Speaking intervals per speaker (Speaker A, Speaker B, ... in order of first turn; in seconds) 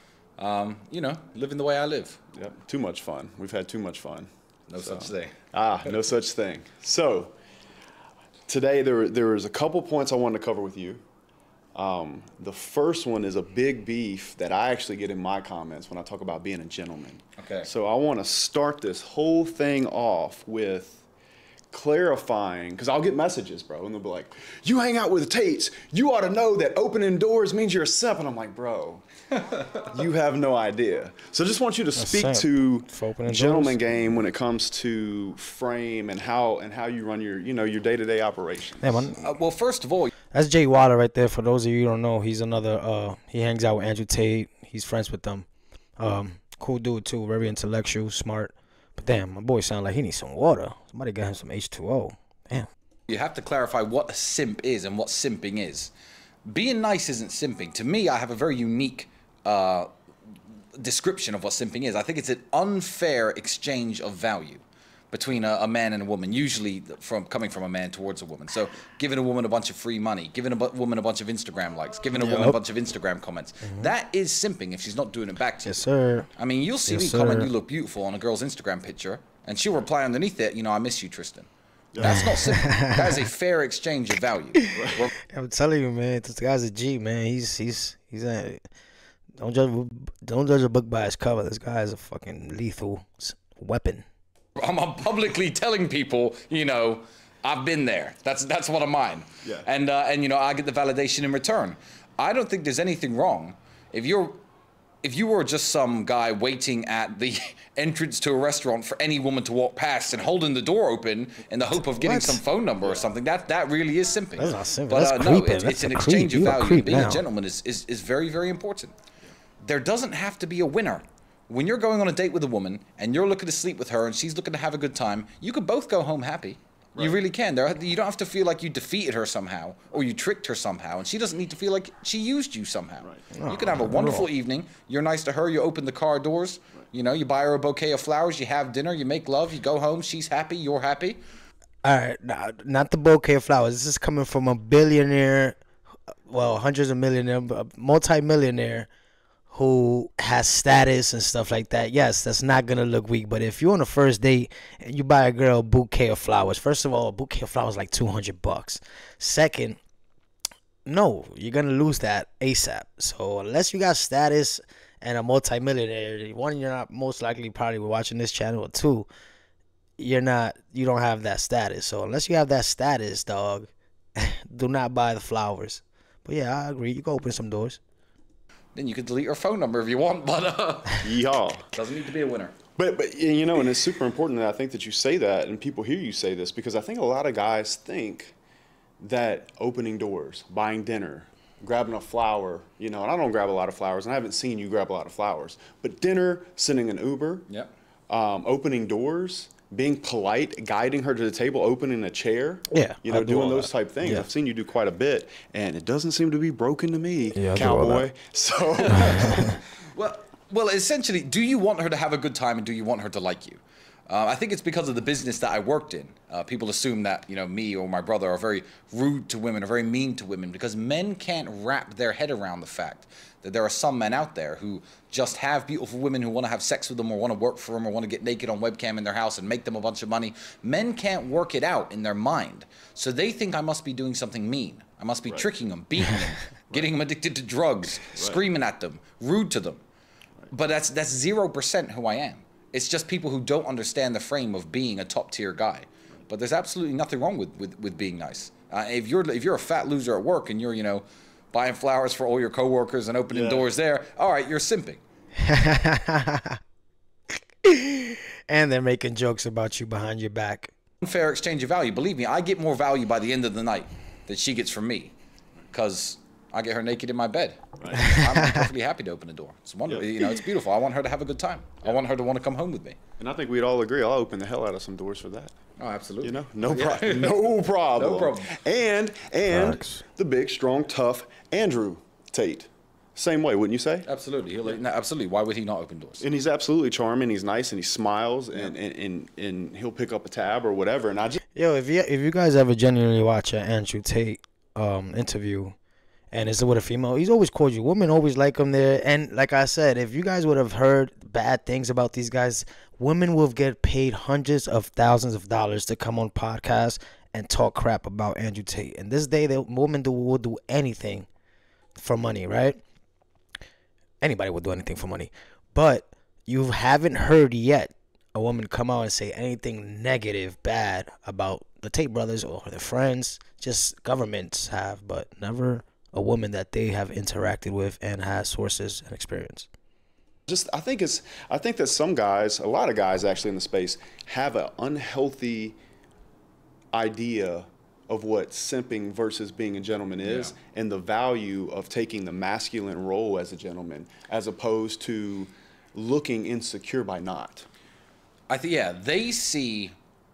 Speaker A: 0.4-2.2, 4.7-5.3, 17.4-17.7, 39.2-40.1, 53.1-55.9, 56.5-59.9, 60.7-75.8, 76.4-85.1, 94.6-104.4, 105.0-118.9, 119.6-141.2, 178.7-181.1, 181.7-182.5, 208.8-239.8, 240.5-255.0, 261.0-265.1, 265.7-273.0, 275.8-277.4, 277.9-278.6, 284.1-286.2, 340.2-340.5, 348.5-349.9
Speaker B: 2.3-7.3, 8.5-11.0, 11.7-21.0, 21.7-29.0, 29.8-39.1, 81.9-82.3, 84.7-85.0, 99.4-99.7, 181.0-181.7, 182.8-188.3, 189.0-197.5, 198.1-209.6, 238.1-238.4, 253.3-253.7, 267.8-268.0, 273.2-275.5, 276.2-284.1, 286.2-291.4, 330.5-335.8, 336.9-347.6
Speaker C: 32.0-33.8, 38.8-39.3, 40.3-45.5, 46.0-52.7, 72.1-72.6, 75.7-76.3, 76.9-77.5, 82.0-83.2, 84.6-88.6, 89.4-94.0, 111.8-112.4, 114.4-117.2, 133.3-134.3, 141.8-145.6, 146.3-148.9, 149.5-159.8, 160.8-169.1, 170.0-177.8, 202.7-204.2, 207.3-208.1, 209.0-209.5, 255.4-256.6, 257.6-260.7, 267.9-268.6, 279.5-280.0, 291.6-295.8, 296.3-311.3, 311.9-312.8, 314.2-329.7